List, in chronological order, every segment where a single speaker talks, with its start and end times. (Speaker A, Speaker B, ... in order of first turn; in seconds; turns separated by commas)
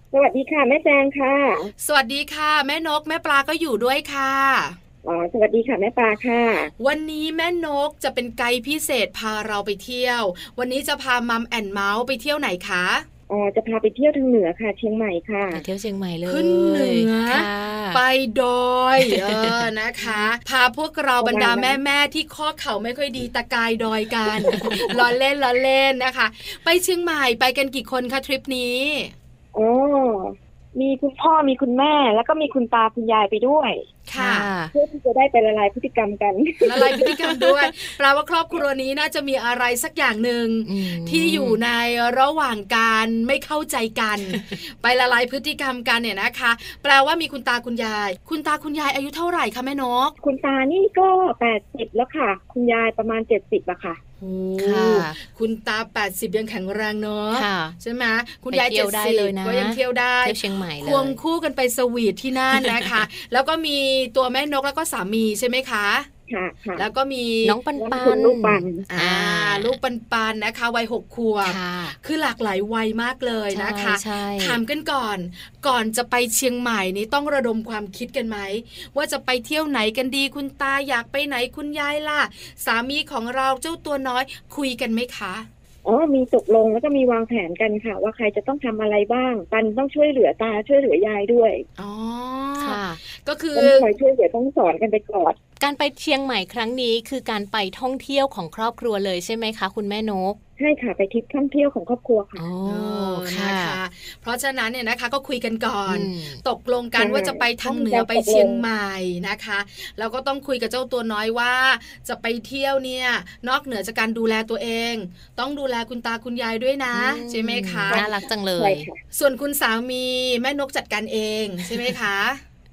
Speaker A: 0.1-1.7, Speaker B: 1.8-4.8, Speaker A: 5.0-6.7, Speaker B: 6.8-13.1, Speaker A: 13.3-15.6, Speaker C: 15.5-18.0, Speaker B: 16.2-29.1, Speaker C: 19.0-20.3, Speaker A: 21.2-21.8, Speaker C: 24.5-25.0, Speaker A: 29.5-33.8, Speaker B: 34.1-34.5, Speaker C: 34.1-34.7, Speaker A: 34.7-37.1, Speaker B: 36.6-50.1, Speaker C: 36.8-37.7, Speaker C: 40.6-41.6, Speaker A: 50.2-54.0, Speaker B: 54.2-66.1, Speaker C: 54.6-55.2, Speaker C: 57.3-57.8, Speaker C: 58.5-61.2, Speaker C: 62.5-63.0, Speaker A: 66.3-66.9, Speaker B: 66.8-67.6, Speaker C: 67.4-69.8, Speaker A: 67.8-68.8, Speaker B: 68.9-85.5, Speaker C: 71.4-72.0, Speaker C: 73.5-74.6, Speaker A: 85.8-91.6, Speaker B: 91.8-93.9, Speaker C: 92.6-93.0, Speaker A: 93.5-95.4, Speaker C: 95.6-100.4, Speaker A: 100.6-102.4, Speaker C: 102.3-103.8, Speaker B: 102.6-118.0, Speaker C: 105.9-106.4, Speaker A: 107.0-108.6, Speaker C: 116.9-118.8, Speaker A: 117.9-119.0, Speaker B: 119.1-122.4